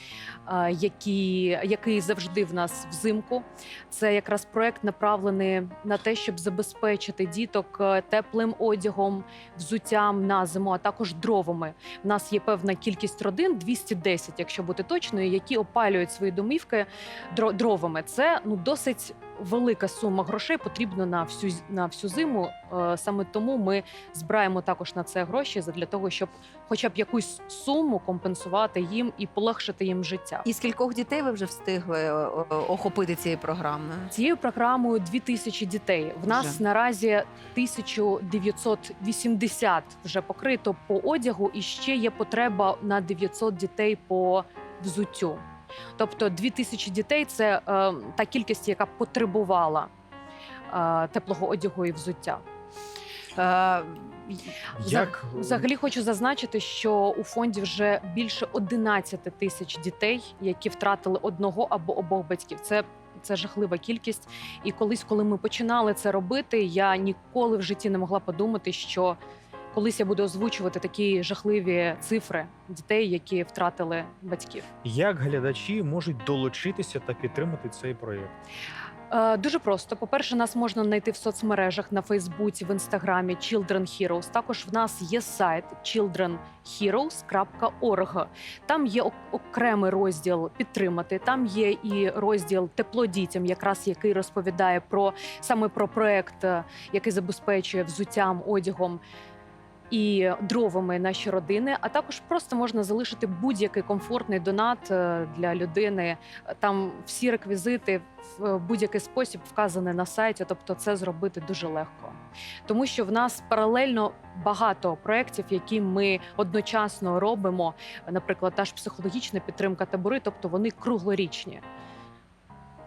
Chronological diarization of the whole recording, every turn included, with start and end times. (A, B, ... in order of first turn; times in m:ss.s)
0:00.5-0:30.4 A
0:30.4-0:34.1 B
0:34.1-0:45.4 A
0:36.2-0:36.6 B
0:46.0-0:49.9 A
0:50.7-0:52.4 A
0:53.4-0:54.6 B
0:54.8-0:55.6 C
0:54.8-1:09.2 A
1:09.7-1:14.6 A
1:14.8-1:18.3 C
1:19.1-1:39.0 A
1:39.9-2:01.6 A